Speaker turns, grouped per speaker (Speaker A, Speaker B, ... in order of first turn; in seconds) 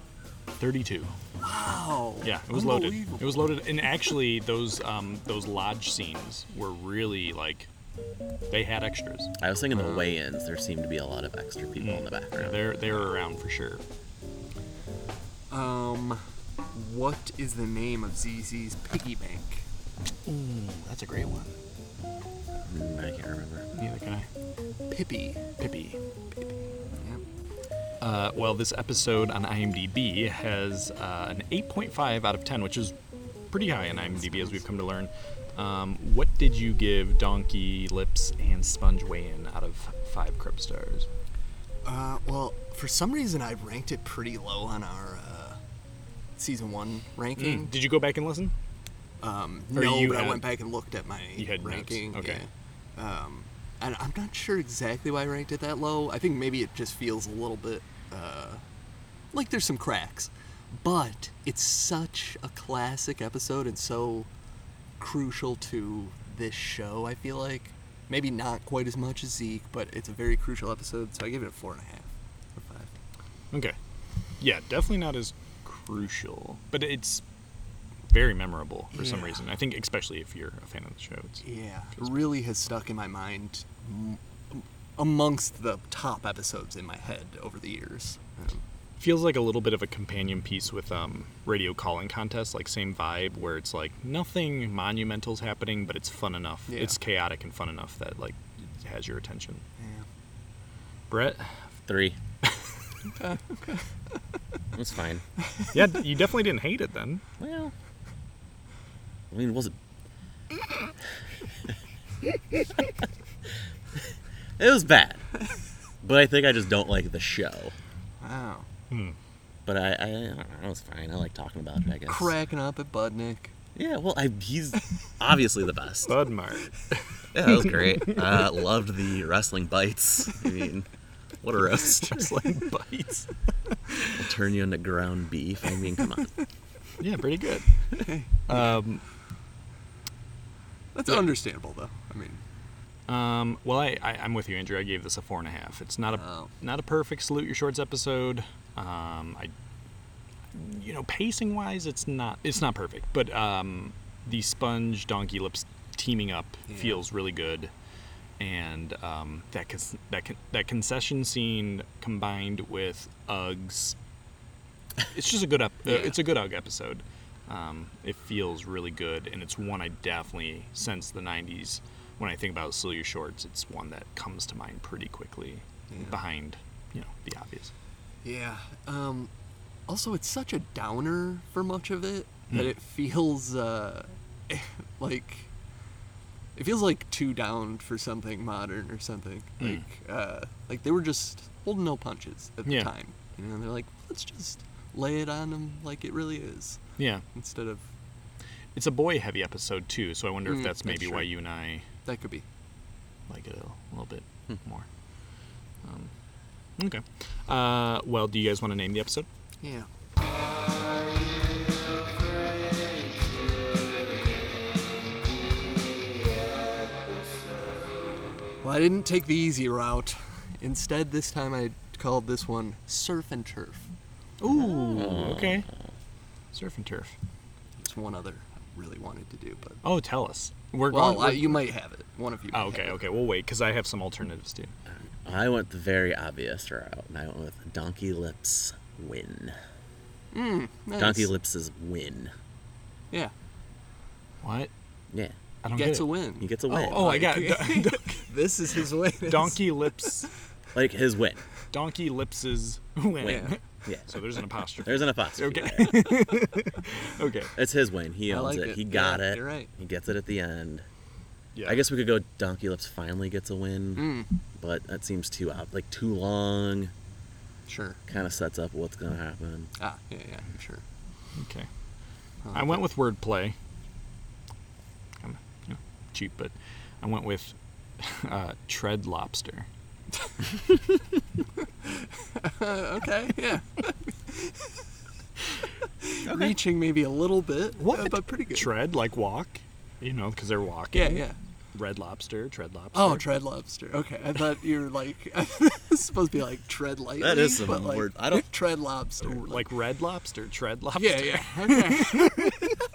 Speaker A: 0.6-1.1, 2.2-7.7, 8.5-9.3, 11.8-13.8, 20.3-21.6, 23.7-24.3, 25.6-26.0, 28.0-33.0, 33.5-41.1, 47.4-48.5, 49.7-50.5, 51.4-52.4, 74.4-77.2, 78.1-81.5, 89.0-99.6, 101.1-101.6, 105.7-107.2, 118.9-119.2, 126.1-128.2, 131.7-133.3, 133.9-134.2, 137.0-137.8, 138.5-139.0, 143.1-149.5, 150.5-157.7, 158.4-164.0, 165.1-177.7, 189.6-189.8, 192.7-192.9, 197.0-197.2, 198.8-201.9, 203.3-204.9, 205.8-206.1, 206.8-209.3, 224.4-225.7, 226.5-227.2, 229.8-231.6, 232.5-234.7, 244.4-244.7, 245.6-246.2, 246.7-248.3, 249.3-250.3, 251.7-257.5, 261.6-261.9, 271.4-271.7, 272.5-273.6, 275.2-279.7, 286.3-286.6, 287.8-291.2, 291.8-293.3, 299.2-302.4
Speaker B: 1.4-3.6, 9.7-10.2, 15.5-19.6, 24.9-25.4, 33.8-34.7, 41.9-45.6, 46.4-47.8, 49.2-58.6, 59.3-64.3, 65.0-72.9, 78.9-79.5, 81.4-88.6, 96.7-97.0, 99.8-100.1, 103.2-103.8, 118.2-118.7, 122.1-123.5, 138.0-138.8, 140.9-142.4, 146.1-146.5, 156.7-157.0, 165.9-166.3, 175.9-176.2, 178.2-179.3, 179.9-185.5, 186.6-196.8, 197.3-197.9, 200.4-201.3, 202.1-202.4, 209.6-209.9, 218.6-223.9, 227.8-229.8, 230.9-233.0, 240.3-241.3, 245.8-249.9, 253.2-253.5, 258.3-259.7, 264.0-264.3, 267.7-268.0, 269.8-270.8, 272.4-272.9, 281.9-284.8, 286.0-288.8, 290.9-291.4, 292.9-299.7, 301.0-302.7
Speaker C: 9.4-13.1, 22.7-23.7, 101.9-102.2, 104.7-105.2, 107.4-107.7, 109.3-109.8, 114.6-115.3, 116.0-117.7, 119.7-122.3, 123.8-126.1, 127.3-130.9, 131.4-132.4, 134.2-136.3, 224.4-225.9, 235.2-239.6, 241.0-242.3, 245.1-245.4, 246.4-247.3, 250.7-251.4, 253.2-256.1, 257.6-260.9, 261.6-266.9, 268.1-269.7, 297.2-298.5